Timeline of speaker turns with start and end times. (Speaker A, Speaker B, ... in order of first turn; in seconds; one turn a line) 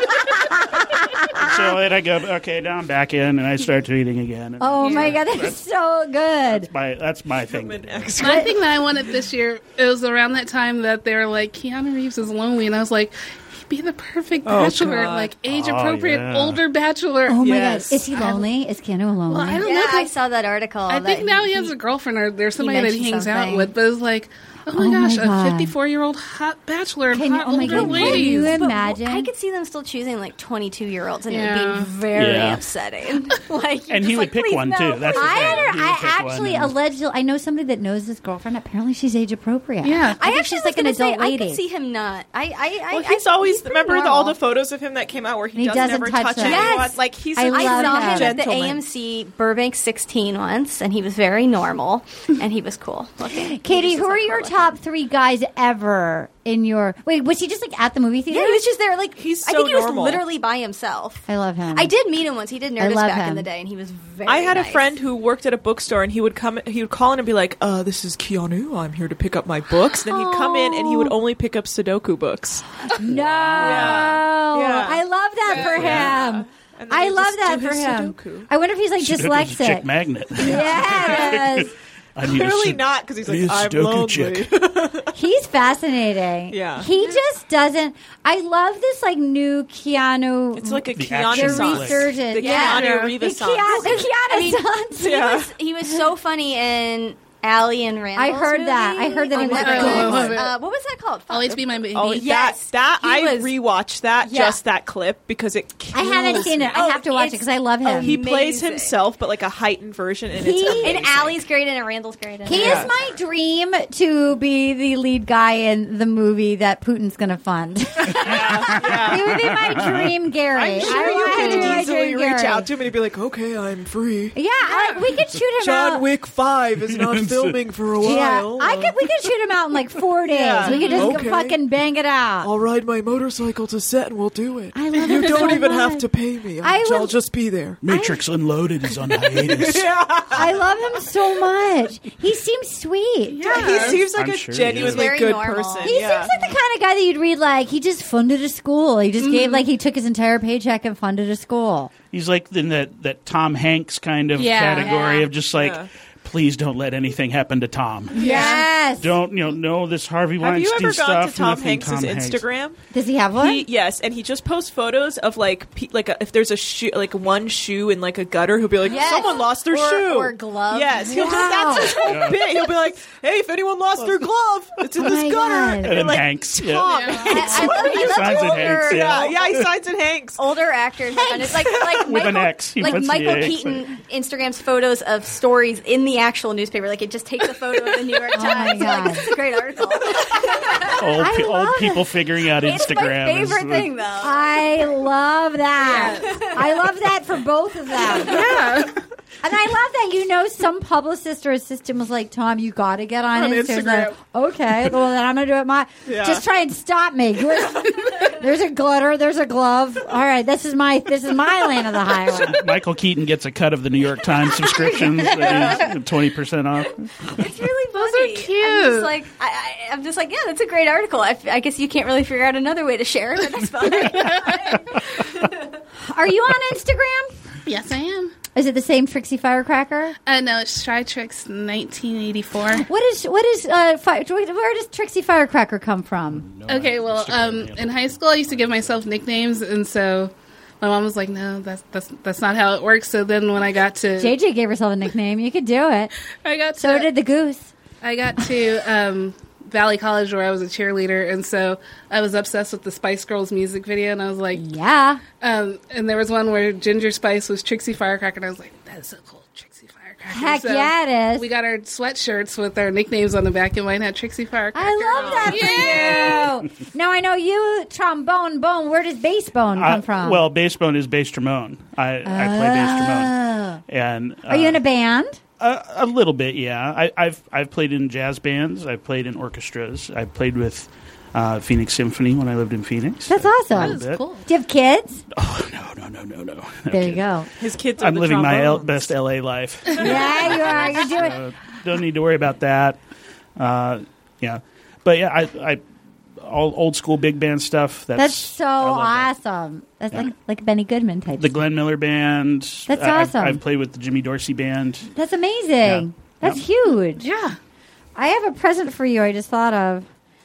Speaker A: 0.5-1.6
Speaker B: 1.3-5.6
Speaker A: 4.6-6.7
Speaker B: 6.5-8.1
Speaker C: 7.4-8.6
Speaker D: 8.2-18.4
Speaker C: 14.4-15.3
Speaker B: 15.4-16.6
Speaker A: 17.3-19.7
Speaker C: 17.4-18.1
Speaker D: 19.3-20.1
Speaker E: 19.6-21.8
Speaker D: 20.9-28.6
Speaker E: 22.6-23.7
Speaker A: 24.7-25.7
Speaker A: 27.1-29.3
Speaker E: 27.6-35.7
Speaker D: 31.3-31.9
Speaker B: 32.1-32.6
Speaker B: 33.9-36.7
Speaker A: 35.1-41.6
Speaker D: 39.8-40.2
Speaker E: 40.2-44.4
Speaker C: 42.9-48.8
Speaker A: 45.5-48.3
Speaker E: 46.4-54.8
Speaker A: 53.4-58.6
Speaker E: 58.3-65.0
Speaker C: 59.1-60.2
Speaker A: 61.3-61.9
Speaker A: 62.8-63.5
Speaker C: 64.2-72.7
Speaker A: 70.1-71.1
Speaker A: 72.9-81.7
Speaker B: 73.0-74.2
Speaker C: 73.6-78.5
Speaker B: 75.7-76.1
Speaker B: 79.0-84.5
Speaker C: 80.5-81.6
Speaker C: 82.2-85.1
Speaker A: 85.1-95.4
Speaker C: 86.5-86.9
Speaker C: 90.5-94.0
Speaker B: 90.9-92.1
Speaker E: 92.4-92.8
Speaker D: 92.7-93.2
Speaker E: 93.7-103.5
Speaker C: 95.0-95.5
Speaker A: 98.2-100.4
Speaker D: 99.4-100.6
Speaker C: 99.5-100.3
Speaker D: 101.3-102.4
Speaker C: 101.9-107.1
Speaker E: 104.2-104.6
Speaker A: 105.9-108.2
Speaker E: 106.3-109.0
Speaker C: 107.9-111.4
Speaker A: 110.3-111.0
Speaker E: 110.7-113.0
Speaker A: 112.4-122.7
Speaker C: 112.5-112.9
Speaker C: 118.2-119.5
Speaker B: 118.3-120.1
Speaker C: 120.5-124.4
Speaker E: 121.1-121.5
Speaker D: 121.3-121.7
Speaker A: 124.3-126.0
Speaker D: 124.7-125.0
Speaker C: 125.6-129.0
Speaker B: 126.9-127.6
Speaker A: 128.0-132.5
Speaker C: 130.2-131.6
Speaker E: 130.7-131.0
Speaker D: 130.7-131.0
Speaker C: 132.4-137.8
Speaker A: 134.7-136.1
Speaker A: 136.6-137.1
Speaker B: 137.8-140.5
Speaker A: 137.9-138.2
Speaker C: 139.1-140.5
Speaker A: 140.3-143.8
Speaker D: 143.3-144.1
Speaker C: 143.4-146.3
Speaker B: 144.0-145.1
Speaker E: 144.7-146.3
Speaker A: 145.8-151.9
Speaker D: 149.2-149.6
Speaker B: 152.1-162.4
Speaker D: 154.3-155.2
Speaker E: 154.8-155.2
Speaker C: 155.5-155.9
Speaker A: 158.1-159.1
Speaker C: 158.1-158.7
Speaker C: 160.4-162.8
Speaker A: 162.9-163.7
Speaker C: 163.3-180.5
Speaker E: 168.8-172.2
Speaker A: 171.1-172.1
Speaker B: 172.0-172.5
Speaker A: 175.0-176.2
Speaker B: 175.8-179.7
Speaker D: 176.9-177.5
Speaker E: 177.1-179.4
Speaker E: 180.4-191.0
Speaker A: 181.1-181.5
Speaker C: 181.6-182.1
Speaker B: 182.0-183.8
Speaker A: 188.3-189.2
Speaker B: 190.9-193.9
Speaker A: 191.1-192.0
Speaker E: 192.5-194.7
Speaker A: 194.2-198.6
Speaker D: 195.8-196.5
Speaker E: 196.2-196.5
Speaker D: 198.0-199.0
Speaker A: 199.4-212.6
Speaker D: 203.3-204.1
Speaker C: 206.1-206.4
Speaker B: 212.3-217.1
Speaker E: 215.4-215.8
Speaker D: 215.4-215.8
Speaker E: 217.2-225.8
Speaker D: 217.9-219.1
Speaker D: 223.8-224.6
Speaker A: 226.0-227.3
Speaker D: 227.7-228.3
Speaker A: 228.5-230.2
Speaker D: 230.2-232.9
Speaker A: 232.8-236.4
Speaker B: 236.3-239.1
Speaker D: 236.7-244.3
Speaker A: 244.2-246.1
Speaker D: 246.4-247.1
Speaker A: 246.8-247.7
Speaker D: 248.0-254.7
Speaker A: 254.5-255.2
Speaker D: 255.4-266.5
Speaker A: 260.3-261.5
Speaker A: 264.7-270.4
Speaker C: 265.1-266.2
Speaker B: 269.7-273.3
Speaker A: 272.2-273.8
Speaker B: 273.9-274.8
Speaker A: 274.5-275.4
Speaker B: 275.6-284.2
Speaker A: 283.3-285.2
Speaker D: 283.7-284.5
Speaker B: 285.3-287.2
Speaker A: 286.9-287.5
Speaker C: 287.6-289.1
Speaker B: 288.0-293.0
Speaker A: 289.9-291.4
Speaker B: 293.6-295.8
Speaker B: 296.4-299.3
Speaker A: 298.1-301.6
Speaker B: 301.4-305.1
Speaker A: 302.9-303.6
Speaker A: 305.1-307.2
Speaker B: 305.8-306.6
Speaker D: 307.2-307.6
Speaker A: 308.1-310.1